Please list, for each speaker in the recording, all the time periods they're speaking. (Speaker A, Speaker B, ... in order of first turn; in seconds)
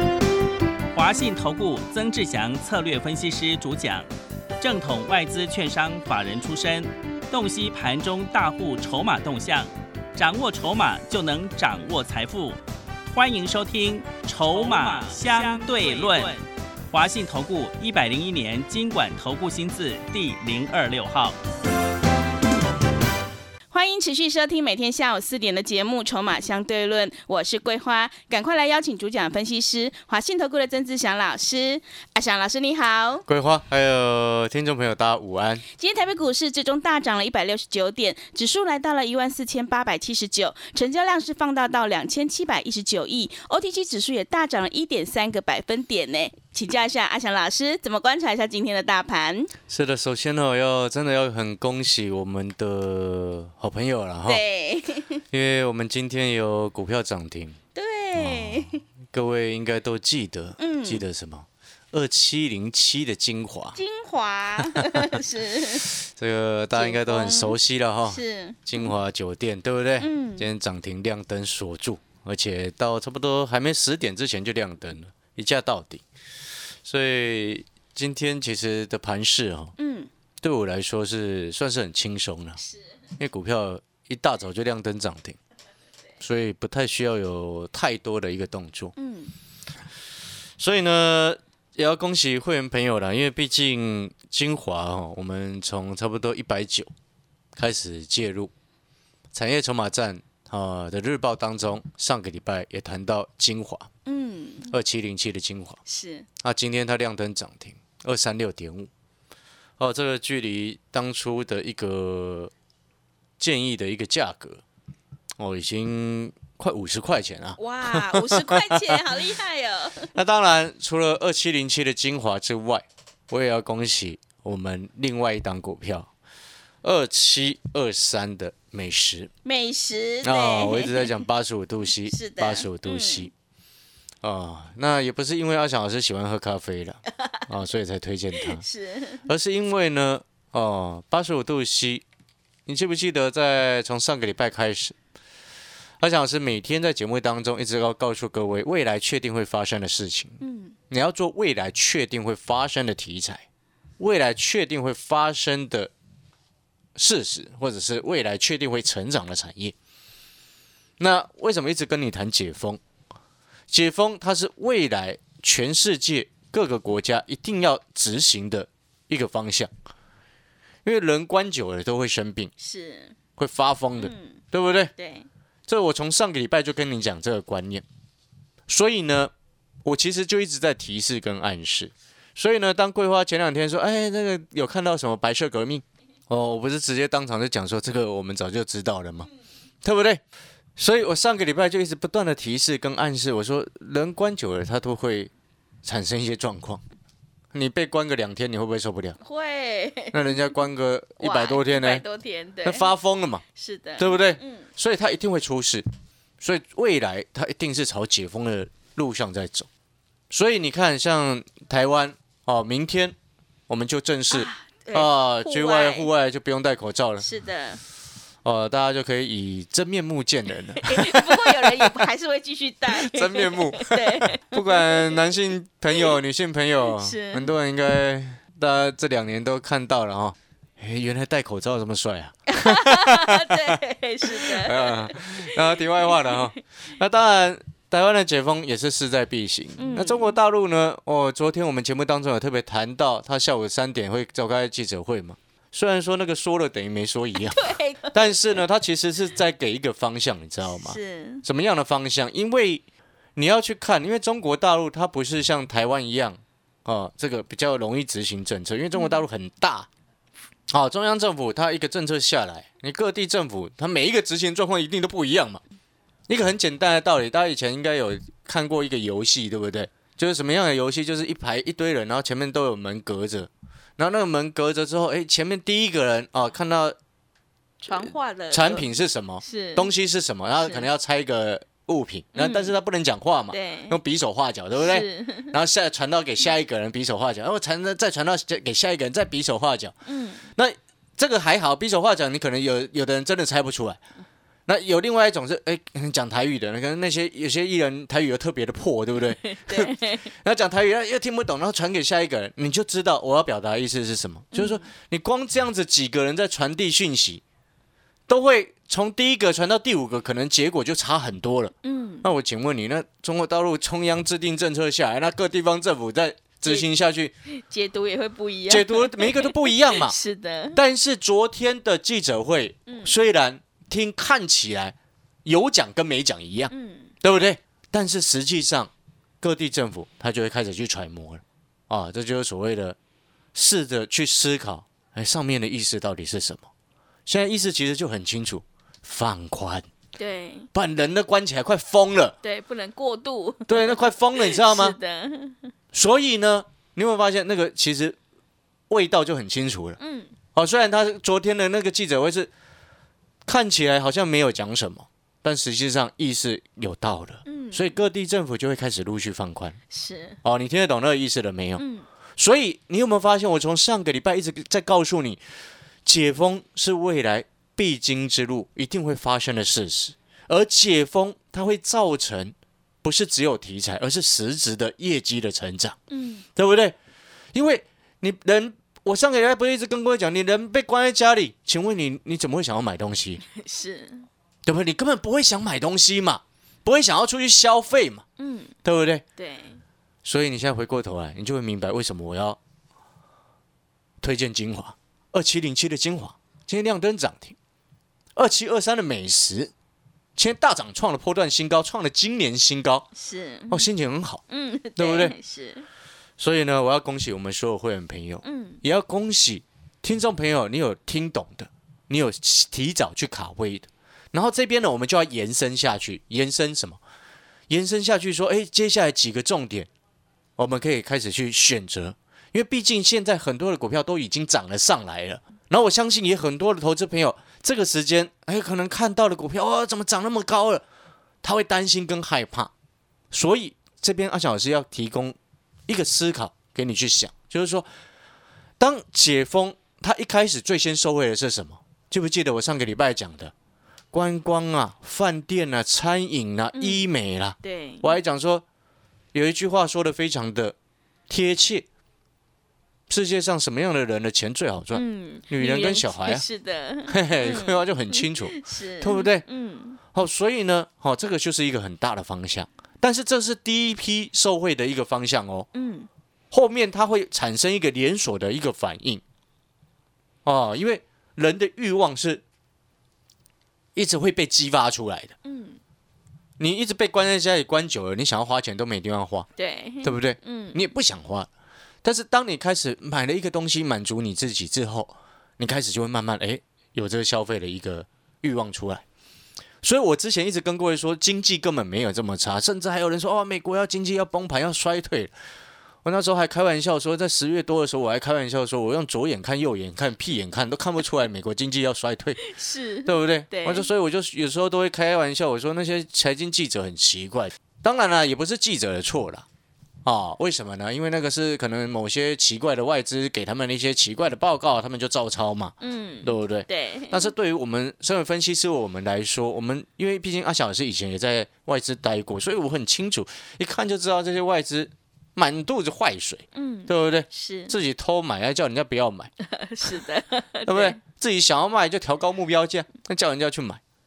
Speaker A: 0.9-4.1, 4.6-12.6, 13.1-21.4
Speaker B: 14.9-16.3, 23.7-33.2, 35.8-49.5, 54.2-55.2, 57.7-58.8, 60.6-61.0, 63.7-65.9, 66.7-68.9, 70.0-70.5, 79.8-80.1, 89.0-89.3, 104.0-104.7, 105.8-106.3, 117.6-120.1, 129.4-131.2, 132.1-133.3, 138.3-139.2, 150.4-150.7, 172.6-173.2, 174.0-174.4, 174.9-175.3, 199.2-200.5, 201.2-202.9, 203.5-204.6, 214.3-216.1, 217.2-217.8, 220.8-225.3, 226.8-227.5, 232.5-236.6, 239.8-240.3, 247.3-248.6, 250.6-251.4, 258.9-259.2, 277.8-278.9, 279.4-279.9, 280.6-280.9, 282.3-282.7, 283.5-284.0, 284.7-285.6, 290.1-290.5, 299.4-300.2, 304.5-304.9, 311.8-312.3, 317.5-320.8, 322.9-323.1, 326.7-327.1, 340.1-340.7, 342.4-345.7, 350.0-350.3, 357.4-357.9, 359.9-360.4, 361.8-362.1, 376.1-376.4, 383.5-384.3, 388.4-388.7, 389.4-389.8, 403.1-403.9, 404.5-405.9, 408.4-408.8, 446.7-447.1, 447.6-448.2, 454.9-460.0, 465.7-466.1, 475.4-475.8, 479.6-480.8, 502.4-503.9, 515.8-517.3, 526.5-527.7, 529.4-531.0
Speaker C: 33.3-35.6, 49.7-54.4, 55.3-57.6, 58.1-63.8, 65.8-76.0, 76.8-79.7, 80.4-82.6, 83.2-85.4, 86.2-88.9, 90.6-96.9, 97.5-98.5, 99.3-103.9, 104.7-105.8, 106.4-108.9, 109.8-112.5, 113.4-114.6, 115.4-119.0, 120.1-126.1, 126.8-129.3, 130.2-133.3, 134.2-138.6, 139.2-142.0, 142.7-144.9, 146.0-150.4, 150.9-153.4, 154.0-155.9, 156.9-159.7, 161.0-162.8, 163.7-169.7, 170.8-172.5, 173.4-174.9, 175.7-177.8, 178.7-179.3, 179.8-189.3, 189.8-190.2, 190.8-195.3, 195.8-196.8, 197.5-199.2, 200.1-202.0, 202.6-203.4, 204.0-205.8, 206.4-209.7, 210.3-213.1, 213.7-217.2, 218.4-222.0, 222.9-233.7, 234.2-252.8, 253.3-259.9, 260.7-265.6, 266.3-277.0, 277.9-289.9, 290.5-294.0, 294.7-307.4, 308.3-317.3, 318.7-320.1, 320.7-332.9, 333.5-336.7, 337.3-339.9, 340.7-342.4, 343.7-345.0, 345.9-348.2, 348.9-350.0, 350.5-352.5, 353.4-359.8, 360.4-361.8, 362.4-365.4, 366.0-376.0, 376.6-376.9, 377.5-383.4, 384.6-388.2, 388.8-389.2, 390.2-392.6, 394.2-397.5, 398.4-399.7, 400.4-403.1, 403.7-404.4, 404.9-405.4, 406.4-417.0, 417.7-419.9, 420.6-430.8, 431.4-432.7, 433.3-435.4, 435.9-437.9, 438.8-443.5, 444.1-448.6, 449.3-450.7, 451.3-451.9, 453.1-456.5, 457.1-459.4, 460.1-465.7, 466.5-469.2, 470.4-472.4, 473.9-475.3, 476.6-479.5, 480.0-481.5, 482.0-489.0, 489.8-495.3, 496.0-502.4, 503.0-509.4, 510.0-529.3, 530.6-533.8